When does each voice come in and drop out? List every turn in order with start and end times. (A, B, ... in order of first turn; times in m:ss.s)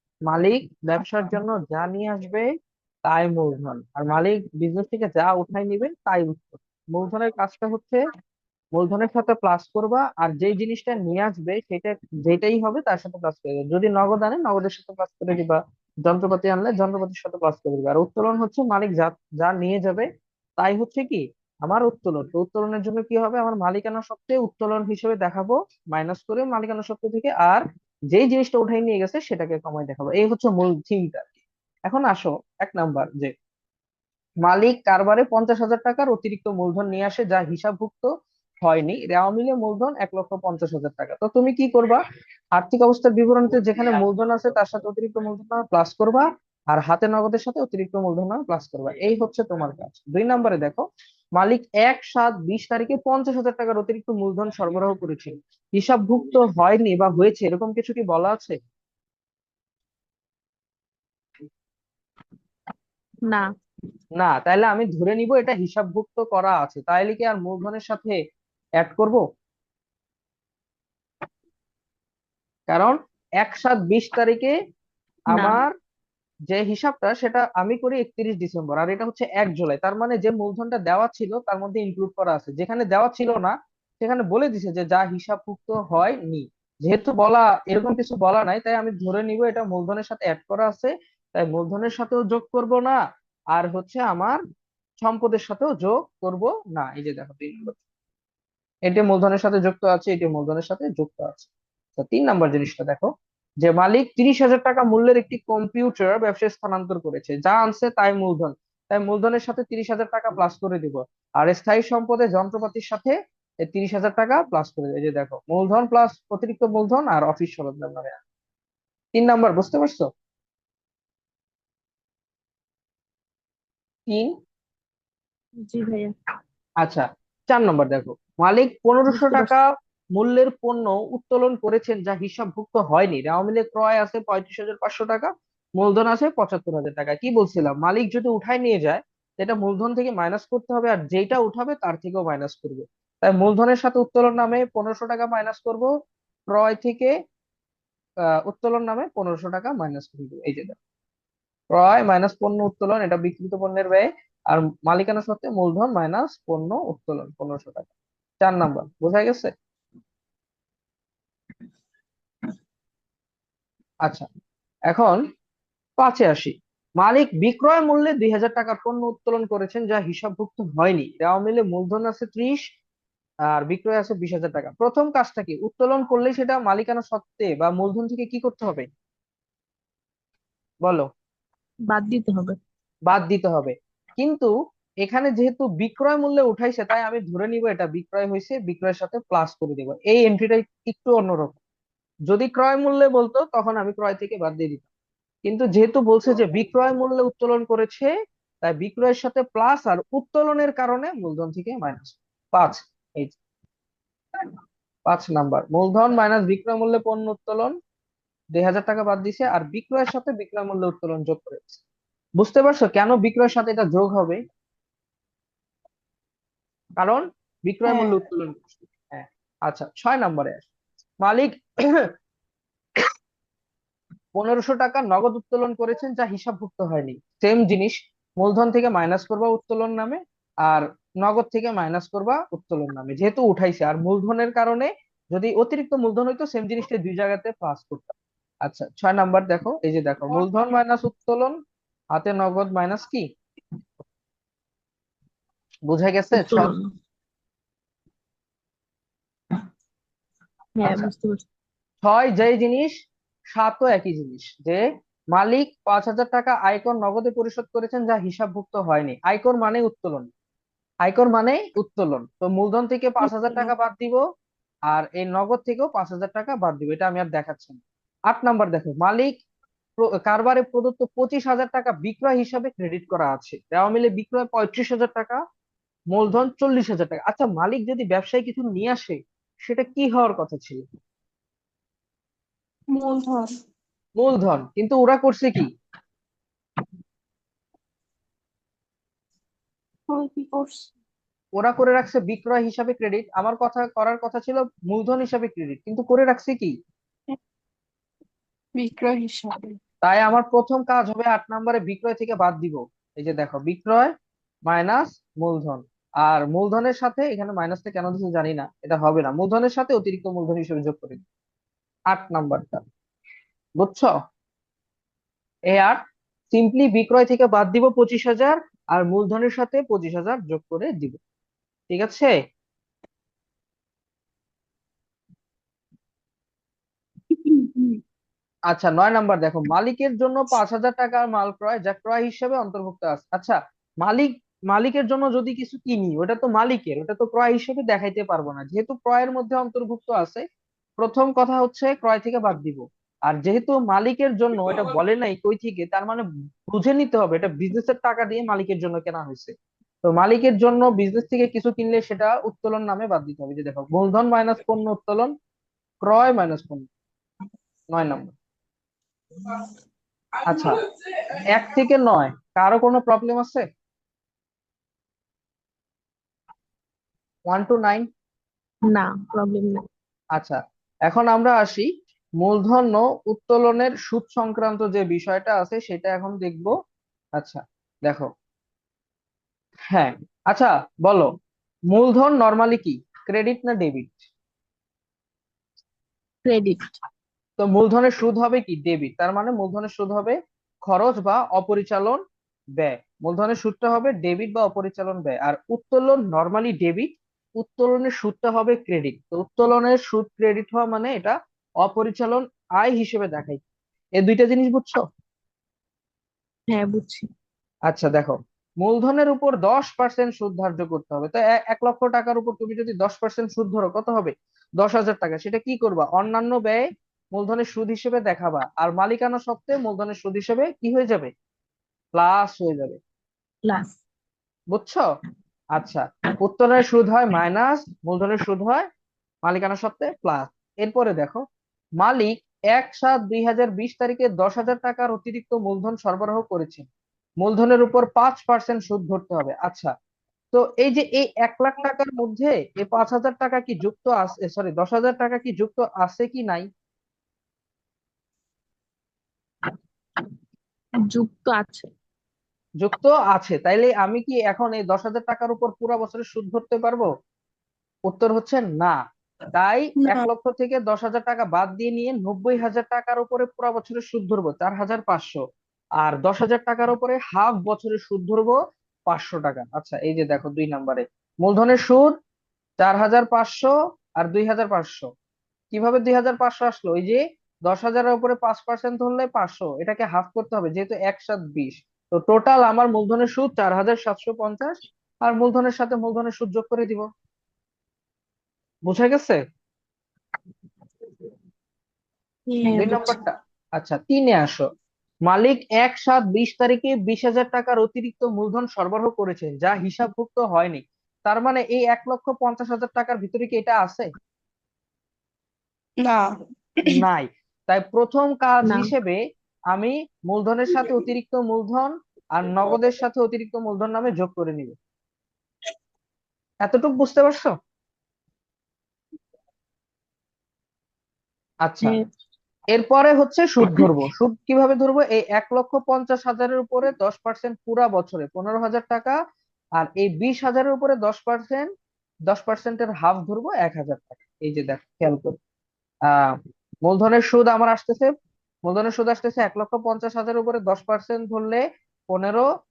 0:00.3-0:02.5 A
0:03.1-0:08.0 A
0:08.8-0:20.1 A
0:20.6-0:31.4 A
0:31.9-0:33.3 A
0:34.4-0:38.1 A
0:38.6-0:42.0 A
0:42.6-0:50.8 A
0:51.4-0:58.6 A
1:04.2-1:08.2 A
1:08.8-1:09.2 A
1:12.7-1:14.5 A
1:15.3-1:15.7 A
1:16.5-1:33.0 A
1:33.6-1:34.4 A
1:35.0-1:37.8 A
1:38.9-1:43.1 A
1:43.6-1:58.2 A
1:59.1-2:00.1 A
2:04.1-2:04.3 A
2:05.6-2:06.1 B
2:06.8-2:25.9 A
2:09.1-2:09.5 B
2:26.5-2:27.1 A
2:28.4-2:30.8 A
2:31.7-2:37.9 A
2:38.4-2:39.5 A
2:44.9-2:45.2 A
2:46.0-2:52.6 A
2:53.5-2:58.9 A
3:01.9-3:02.6 B
3:03.1-3:11.6 A
3:12.3-3:14.8 A
3:15.4-3:18.1 A
3:18.6-3:23.4 A
3:25.1-3:27.7 A
3:28.5-3:31.8 A
3:32.4-3:34.4 A
3:37.0-3:40.7 A
3:37.9-3:38.1 B
3:41.2-3:42.1 A
3:44.4-4:01.6 A
4:02.1-4:03.3 A
4:05.9-4:06.7 A
4:06.3-4:06.9 B
4:10.8-4:11.4 B
4:12.0-4:12.9 A
4:13.5-4:20.3 A
4:21.0-4:24.2 A
4:23.4-4:23.7 B
4:24.9-4:29.3 A
4:30.0-4:35.4 A
4:36.1-4:40.8 A
4:42.9-4:43.5 C
4:44.2-4:45.7 A
4:50.1-4:50.9 C
4:51.6-4:56.7 A
4:58.8-4:59.8 C
5:00.0-5:04.1 A
5:04.7-5:11.2 A
5:12.1-5:12.8 A
5:13.8-5:14.1 A
5:15.7-5:16.0 A
5:16.5-5:21.2 A
5:21.9-5:22.3 A
5:28.7-5:40.4 A
5:41.0-5:55.3 A
5:56.0-5:56.9 A
5:57.9-5:58.3 A
6:00.4-6:00.8 A
6:01.4-6:03.6 A
6:07.5-6:08.1 A
6:08.9-6:09.8 B
6:10.4-6:16.7 A
6:17.4-6:18.3 A
6:19.9-6:21.3 A
6:21.9-6:24.3 A
6:26.4-6:27.0 B
6:27.6-6:32.2 A
6:32.8-6:43.6 A
6:44.2-6:45.0 A
6:46.7-6:47.3 B
6:47.9-7:01.3 A
7:02.1-7:03.0 A
7:03.6-7:04.0 B
7:04.7-7:05.0 A
7:05.8-7:08.9 A
7:09.4-7:11.4 A
7:12.0-7:16.9 A
7:17.4-7:19.9 A
7:20.5-7:26.7 A
7:31.1-7:31.9 B
7:32.8-7:37.1 A
7:38.1-7:39.0 A
7:39.5-7:45.4 A
7:40.0-7:40.3 C
7:46.0-7:48.6 A
7:49.1-7:52.1 A
7:52.8-7:55.1 A
7:55.7-8:07.1 A
8:08.9-8:09.4 A
8:12.6-8:13.2 B
8:12.6-8:13.0 C
8:12.8-8:14.6 A
8:15.3-8:24.1 A
8:26.0-8:26.9 C
8:26.8-8:29.2 A
8:28.6-8:28.9 B
8:29.7-8:34.8 A
8:36.6-8:37.5 A
8:41.6-8:42.0 A
8:42.7-8:49.2 A
8:49.8-8:51.7 A
8:52.3-8:55.4 A
8:56.1-8:58.1 A
8:58.6-9:02.5 A